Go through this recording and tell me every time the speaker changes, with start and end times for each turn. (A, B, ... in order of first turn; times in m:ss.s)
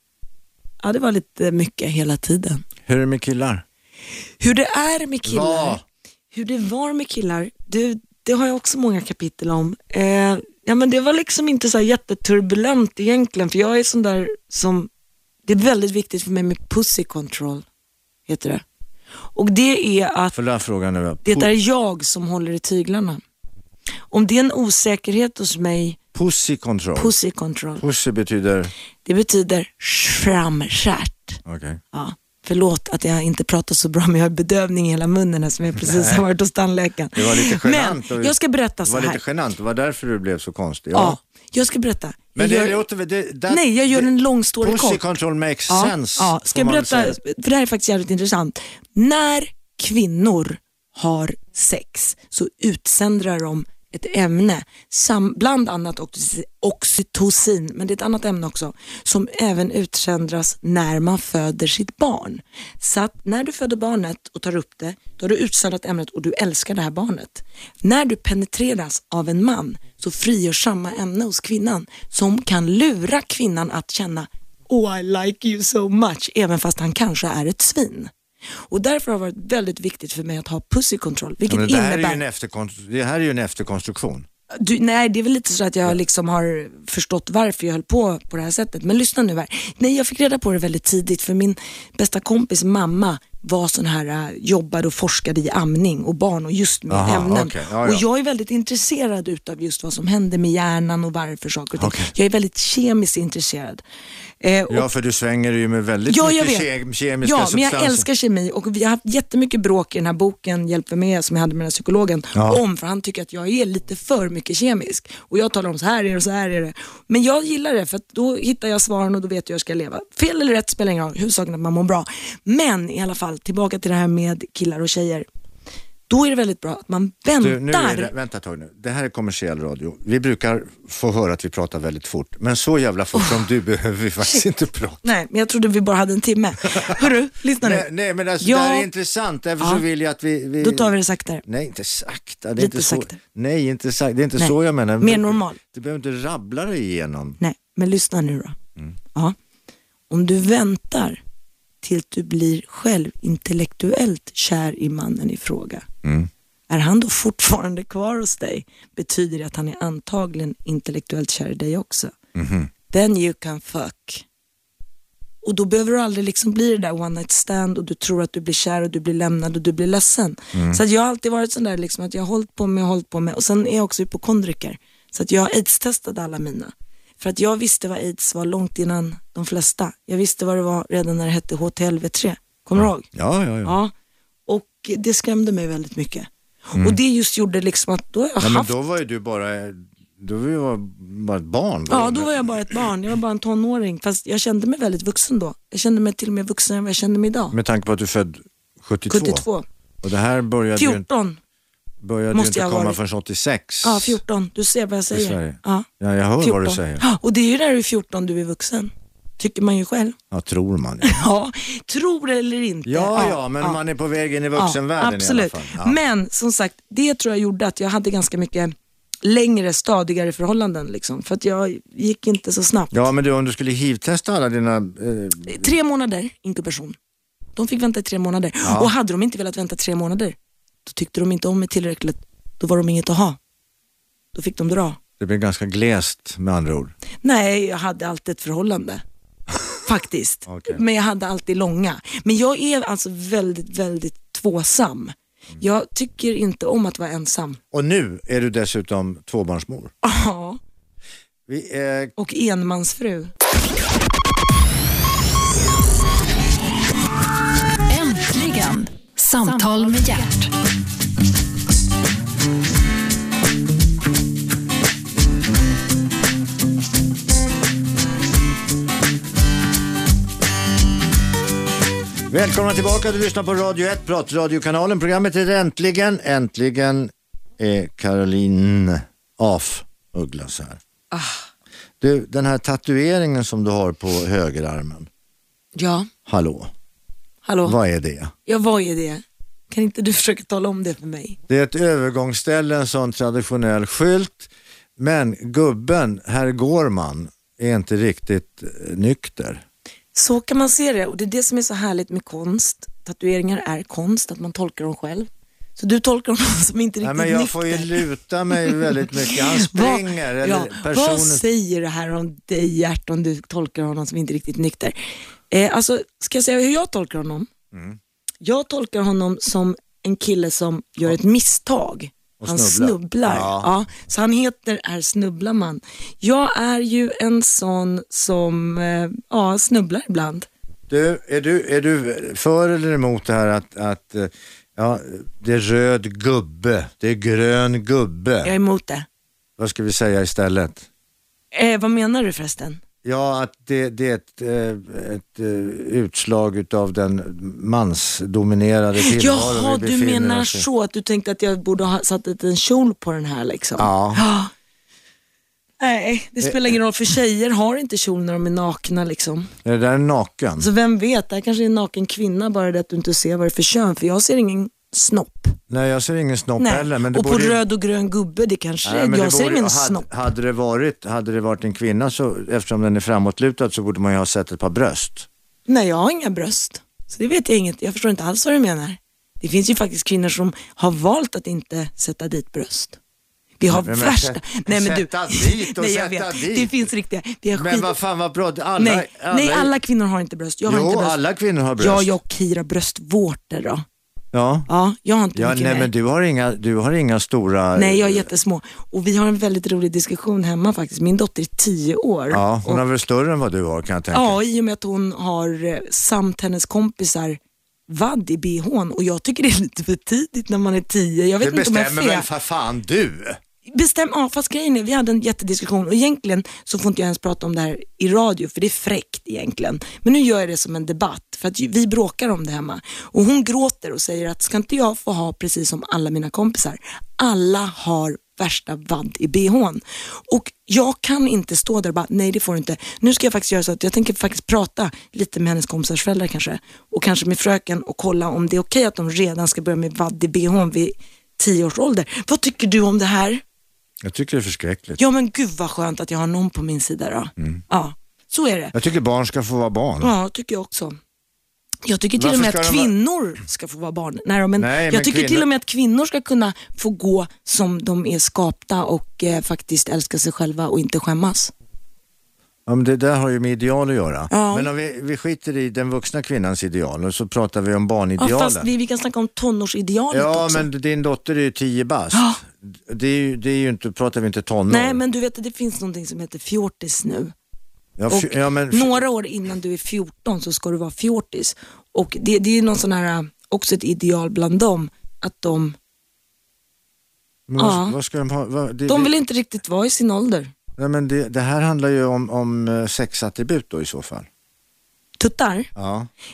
0:00.8-0:02.6 A
0:02.9-0:03.6 B
0:04.4-0:05.8 A
0:05.2-0:05.8 B
0:06.3-0:14.9 A
0:15.5-0:17.6 A
0:18.3-0:18.6 A
0:19.4-0:20.4 A
0:20.3-0:21.5 B
0:21.2-0:23.2 A
0:24.1-0:26.0 A
0:26.2-0:27.1 B
0:27.0-0:27.8 A
0:27.8-0:28.7 B
0:29.0-0:31.4 A
0:31.4-0:31.8 B
0:31.9-0:39.2 A
0:35.8-0:36.2 B
0:37.2-0:41.2 B
0:40.9-0:42.8 A
0:42.4-0:44.1 B
0:43.5-0:45.0 A
0:44.6-0:47.2 B
0:45.7-1:18.1 A
1:18.7-1:22.2 A
1:21.5-1:24.3 B
1:24.5-1:43.8 A
1:36.9-1:38.0 B
1:41.8-1:42.1 B
1:44.4-1:44.9 A
1:44.7-1:48.1 B
1:46.1-1:46.7 A
1:47.2-2:05.3 A
1:52.4-1:52.6 B
2:06.1-2:08.1 A
2:07.4-2:15.0 B
2:13.2-2:13.4 A
2:15.0-2:17.9 A
2:16.8-2:17.0 B
2:17.6-2:20.9 B
2:18.4-2:18.9 A
2:20.6-2:21.4 A
2:21.4-2:27.4 B
2:22.6-2:23.2 A
2:24.4-2:25.6 A
2:27.4-2:28.6 A
2:30.1-2:31.2 A
2:31.8-2:35.9 A
2:36.0-2:36.3 B
2:36.7-2:42.2 A
2:42.4-2:42.7 B
2:42.9-2:44.2 A
2:45.4-3:03.1 A
2:50.5-2:50.8 B
3:02.8-3:03.8 B
3:03.6-3:03.9 A
3:04.5-3:08.7 A
3:08.4-3:12.5 B
3:11.9-3:17.6 A
3:17.5-3:19.4 B
3:19.1-3:19.7 A
3:20.0-3:21.0 B
3:20.8-3:21.4 A
3:22.0-3:24.2 B
3:22.3-3:23.0 A
3:23.8-3:25.9 A
3:25.1-3:27.0 B
3:26.4-3:30.2 A
3:30.3-3:31.1 B
3:31.0-3:33.8 A
3:32.9-3:36.0 B
3:34.6-3:43.0 A
3:42.9-3:45.7 B
3:45.5-3:47.0 A
3:47.6-3:53.4 A
3:48.6-3:48.9 B
3:54.3-3:55.0 A
3:55.2-3:57.0 B
3:57.2-3:59.0 A
3:59.8-4:07.6 A
4:00.5-4:00.8 B
4:07.7-4:09.9 B
4:10.0-4:10.6 A
4:11.5-4:12.1 B
4:12.2-4:13.3 A
4:17.9-4:20.6 C
4:32.3-4:40.8 B
4:41.1-4:41.5 A
4:42.0-4:45.1 B
4:45.8-4:46.1 A
4:46.3-4:46.7 B
4:47.4-4:47.8 A
4:47.6-4:48.3 B
4:48.5-4:51.4 A
4:51.5-4:59.6 B
5:00.1-5:15.0 A
5:07.0-5:11.4 B
5:15.5-5:17.5 A
5:17.7-5:18.0 B
5:18.4-5:30.5 A
5:22.4-5:23.7 B
5:30.9-5:38.5 B
5:38.4-5:39.1 A
5:39.6-5:40.9 B
5:41.5-5:42.8 A
5:43.0-5:50.7 B
5:49.0-5:54.5 A
5:53.8-5:54.2 B
5:55.8-5:59.5 A
5:56.4-5:56.7 B
5:59.6-6:00.7 B
6:00.6-6:05.6 A
6:05.7-6:07.6 B
6:06.6-6:10.1 A
6:08.8-6:15.3 B
6:15.7-6:23.0 A
6:23.6-6:27.9 A
6:23.7-6:26.8 B
6:27.5-6:29.7 B
6:28.8-6:31.2 A
6:30.7-6:32.1 B
6:31.8-6:33.8 A
6:34.3-6:34.7 B
6:34.7-6:35.9 A
6:35.4-6:38.3 B
6:37.8-6:42.8 A
6:42.3-6:44.4 B
6:44.1-6:52.3 A
6:51.4-6:53.4 B
6:53.7-7:23.4 A
7:24.0-7:25.0 B
7:25.0-7:28.7 A
7:28.7-7:30.1 B
7:30.0-7:31.0 A
7:31.9-7:41.5 A
7:32.2-7:32.9 B
7:34.6-7:35.5 B
7:42.7-7:48.7 B
7:44.3-7:44.7 A
7:48.2-7:50.7 A
7:50.1-7:55.0 B
7:52.1-7:52.4 A
7:54.7-7:57.3 A
7:58.0-7:59.0 B
7:58.1-8:05.8 A
8:07.5-8:09.1 B
8:07.6-8:08.0 A
8:08.9-8:10.5 A
8:10.8-8:14.3 B
8:15.2-8:15.7 A
8:15.8-8:16.1 B